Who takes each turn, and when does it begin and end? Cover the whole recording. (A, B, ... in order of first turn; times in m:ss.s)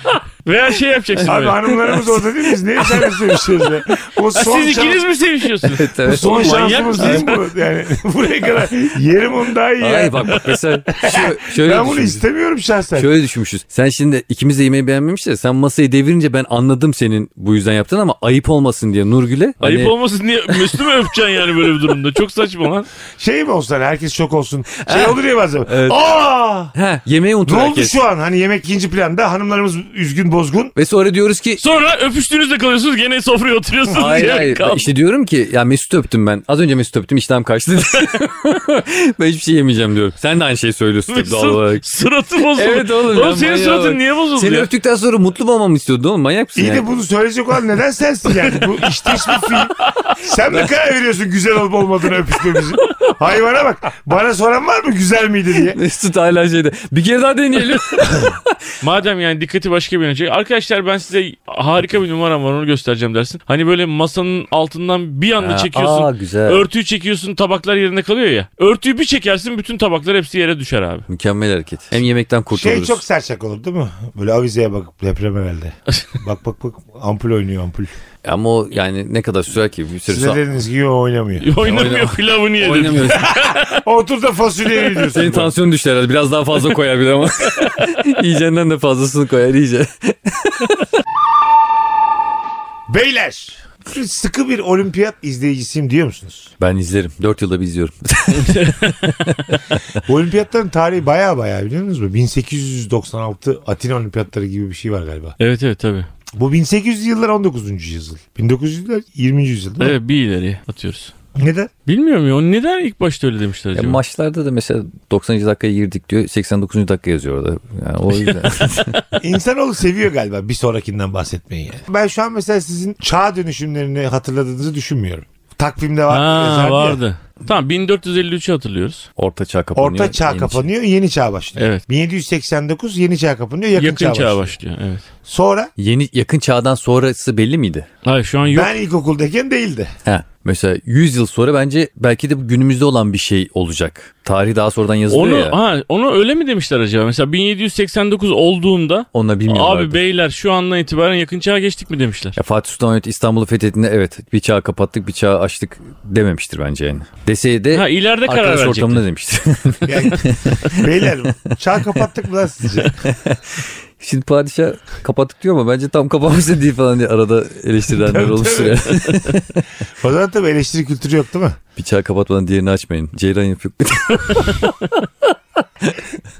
0:00.4-0:02.1 A
0:01.2-0:05.0 B
0:04.3-0:07.4 A
0:05.7-0:07.2 C
0:06.0-0:10.4 B
0:09.8-0:12.2 C
0:10.9-0:13.1 B
0:12.9-0:19.9 C
0:19.6-0:22.9 A
0:20.5-0:20.9 C
0:23.2-0:26.7 B
0:24.7-0:26.1 C
0:26.7-0:28.0 C
0:27.4-0:30.7 B
0:30.8-0:31.6 C
0:31.6-0:34.9 A
0:33.9-0:41.8 C
0:41.1-0:44.7 A
0:42.5-0:46.9 C
0:46.6-0:55.8 B
0:55.5-0:58.6 C
0:58.8-1:11.1 A
1:05.4-1:06.6 C
1:11.1-1:13.0 C
1:12.5-1:17.9 B
1:18.2-1:20.4 C
1:20.1-1:21.6 B
1:21.4-1:23.8 A
1:21.6-1:23.3 C
1:23.0-1:25.5 B
1:25.0-1:30.8 C
1:32.9-1:36.5 B
1:36.6-1:39.8 C
1:38.4-1:39.3 A
1:40.0-1:45.4 B
1:45.4-1:46.1 A
1:46.3-1:50.0 B
1:49.8-1:51.1 A
1:51.4-1:51.7 B
1:51.9-1:54.0 A
1:53.7-1:59.0 C
1:58.2-1:59.0 A
1:59.2-2:07.0 B
2:06.1-2:09.1 A
2:09.2-2:10.7 C
2:09.7-2:14.5 B
2:11.6-2:11.8 A
2:13.8-2:15.0 A
2:15.2-2:15.7 B
2:15.8-2:17.9 C
2:18.0-2:18.7 A
2:18.5-2:19.9 B
2:20.0-2:25.6 C
2:25.1-2:32.4 A
2:29.1-2:30.0 C
2:32.4-2:41.6 C
2:37.7-2:39.0 A
2:39.8-2:43.0 B
2:42.8-2:49.7 C
2:48.0-2:49.1 B
2:50.0-2:51.6 B
2:51.8-2:54.7 C